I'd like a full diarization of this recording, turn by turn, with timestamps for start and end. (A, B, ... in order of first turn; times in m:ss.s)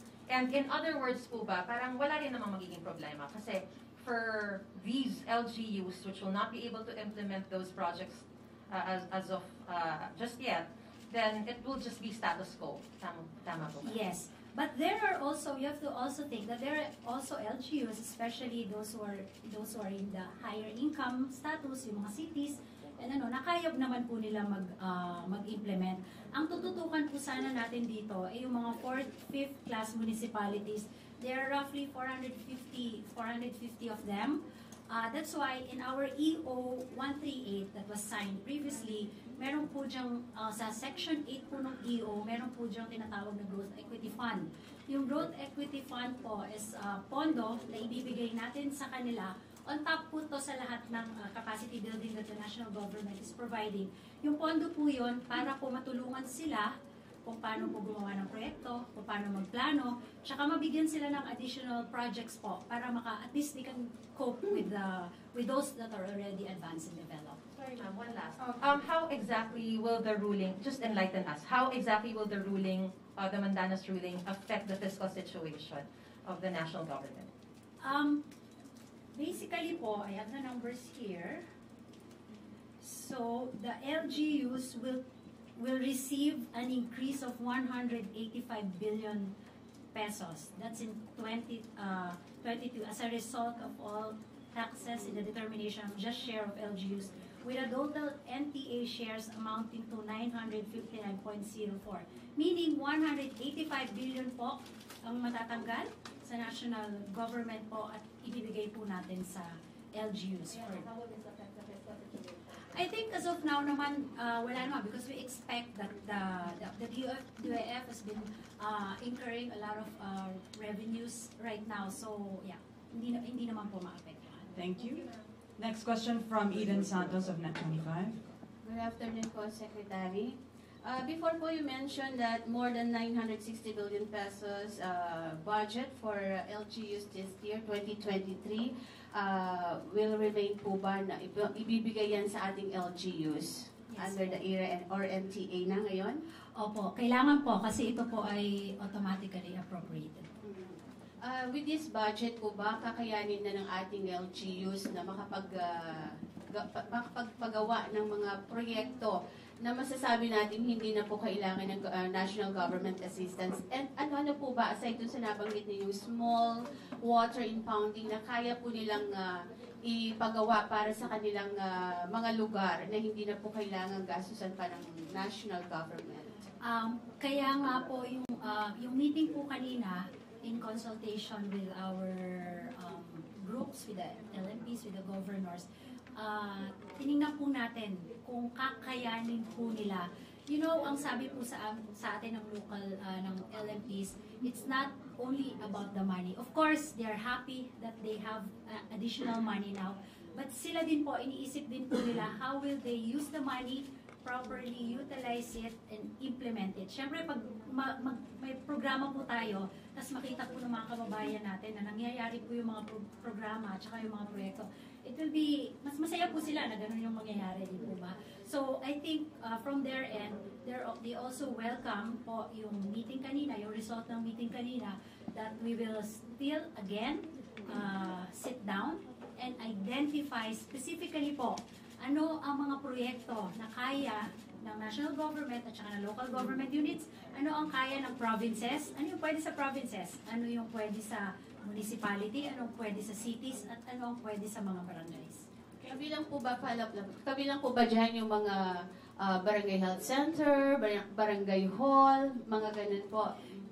0:00.3-0:14.0 A
0:13.8-0:56.7 B
0:57.3-1:07.4 B
1:07.6-1:17.3 A
1:17.8-1:18.2 B
1:19.1-1:21.4 B
1:22.8-1:25.0 B
1:25.6-1:29.3 B
1:29.9-1:50.8 B
1:50.6-1:52.3 A
1:52.7-2:04.5 B
2:04.6-2:08.2 C
2:08.6-2:26.2 D
2:23.9-2:24.4 B
2:26.6-2:30.3 B
2:30.4-2:56.4 D
2:56.6-3:05.7 B
3:06.2-4:05.4 B
4:05.8-4:08.6 D
4:09.2-4:13.4 D